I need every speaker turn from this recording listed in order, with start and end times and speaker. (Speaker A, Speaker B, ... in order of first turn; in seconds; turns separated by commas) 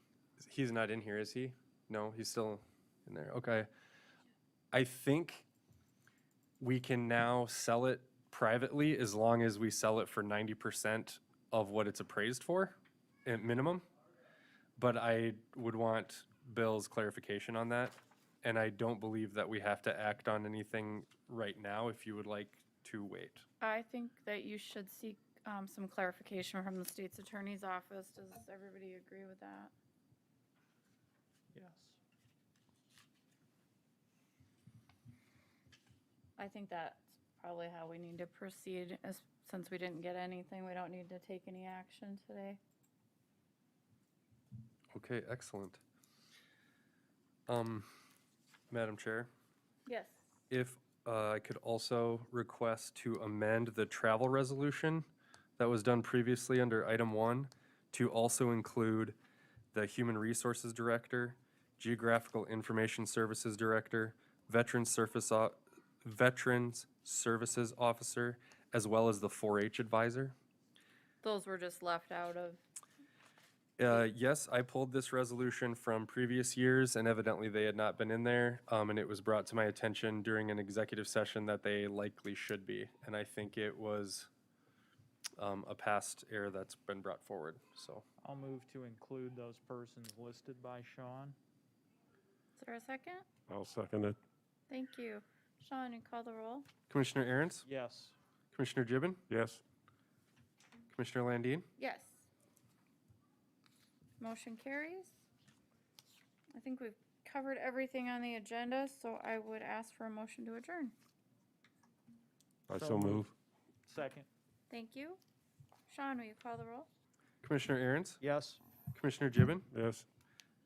Speaker A: 0.4-3.7, Speaker A: 4.7-5.5, Speaker A: 6.6-13.8, Speaker A: 14.8-23.4, Speaker B: 23.6-29.7, Speaker C: 31.5-32.0, Speaker B: 36.4-42.6, Speaker A: 44.9-45.8, Speaker A: 47.5-47.9, Speaker A: 48.7-49.3, Speaker B: 49.9-50.2, Speaker A: 50.5-55.1, Speaker A: 55.6-59.2, Speaker A: 59.7-70.3, Speaker B: 71.2-72.6, Speaker A: 73.8-84.3, Speaker A: 85.4-88.0, Speaker C: 88.2-91.4, Speaker B: 92.6-93.2, Speaker D: 93.5-94.2, Speaker B: 94.7-96.7, Speaker A: 96.9-97.7, Speaker C: 97.7-98.2, Speaker A: 98.5-99.2, Speaker D: 99.3-99.6, Speaker A: 100.9-101.7, Speaker B: 101.8-102.3, Speaker B: 104.2-105.1, Speaker B: 106.5-110.9, Speaker D: 112.7-113.3, Speaker C: 112.7-113.3, Speaker C: 113.9-114.3, Speaker B: 114.7-115.2, Speaker B: 115.9-116.9, Speaker A: 117.4-118.2, Speaker C: 118.2-118.6, Speaker A: 118.9-119.7, Speaker D: 119.7-120.1